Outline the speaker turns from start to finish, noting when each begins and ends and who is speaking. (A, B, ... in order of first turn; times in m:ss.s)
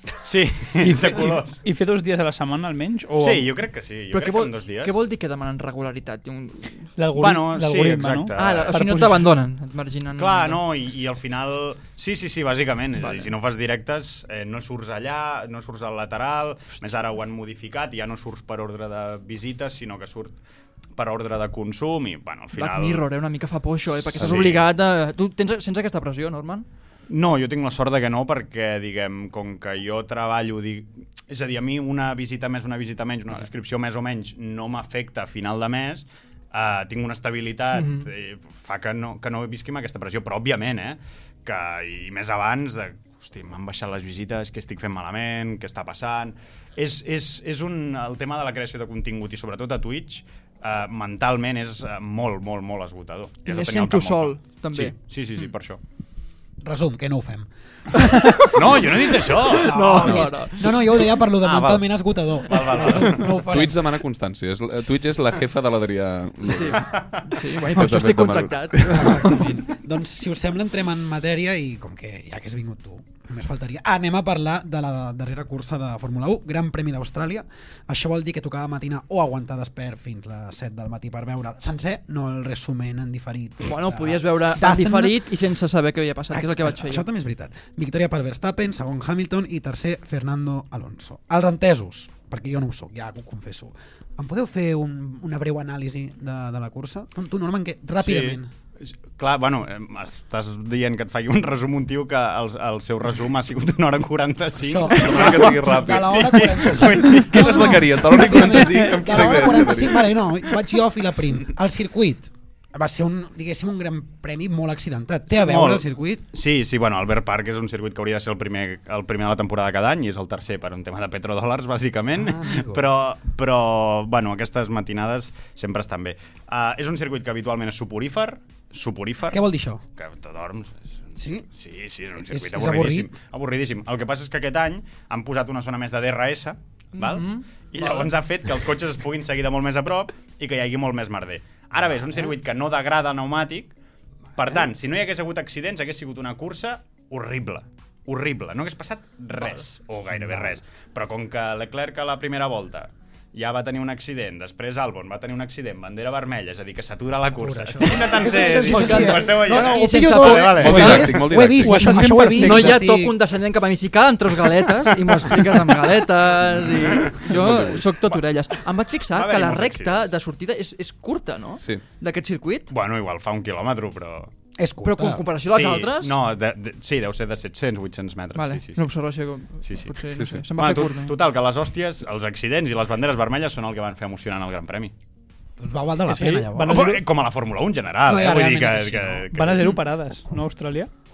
0:00.2-0:01.6 A
0:00.8-0:03.5 B
0:03.2-0:05.0 A
0:04.1-0:06.9 C
0:07.0-0:09.4 B
0:07.2-0:08.8 A
0:08.4-0:10.6 C
0:10.2-0:20.4 A
0:13.0-0:13.3 C
0:21.0-0:23.1 A
0:22.6-0:26.7 C
0:23.9-0:24.7 A
0:27.1-0:55.8 A
0:37.8-0:38.1 C
0:53.5-0:55.5 C
0:56.6-0:57.5 D
0:58.1-1:01.2 C
0:58.5-1:00.3 A
0:59.6-1:03.8 D
1:01.4-1:01.9 A
1:02.4-1:03.3 A
1:03.5-1:06.8 E
1:06.5-1:09.4 C
1:06.8-1:07.2 A
1:07.6-1:09.4 E
1:08.9-1:25.2 D
1:23.6-1:27.1 C
1:26.3-1:38.5 D
1:38.0-1:47.8 A
1:44.7-1:56.2 D
1:44.9-1:50.2 E
1:55.3-2:09.4 A
2:02.2-2:02.8 D
2:09.3-2:09.8 D
2:10.0-2:23.7 A
2:11.2-2:11.5 D
2:12.3-2:13.1 D
2:17.0-2:18.1 C
2:24.4-2:41.1 A
2:30.2-2:30.5 D
2:37.4-2:43.2 D
2:38.5-2:41.1 C
2:40.6-2:42.0 E
2:41.5-2:42.8 B
2:42.4-2:52.7 C
2:47.2-2:47.9 E
2:49.1-2:50.1 A
2:51.6-2:51.8 E
2:52.7-2:54.3 A
2:54.6-2:55.2 D
2:54.8-2:56.2 C
2:55.5-2:58.9 A
2:58.4-3:01.2 C
2:59.6-2:59.9 A
3:00.1-3:00.4 E
3:00.6-3:04.9 A
3:05.6-3:06.9 D
3:06.1-3:07.0 B
3:06.6-3:09.7 A
3:08.1-3:09.2 D
3:09.3-3:10.9 B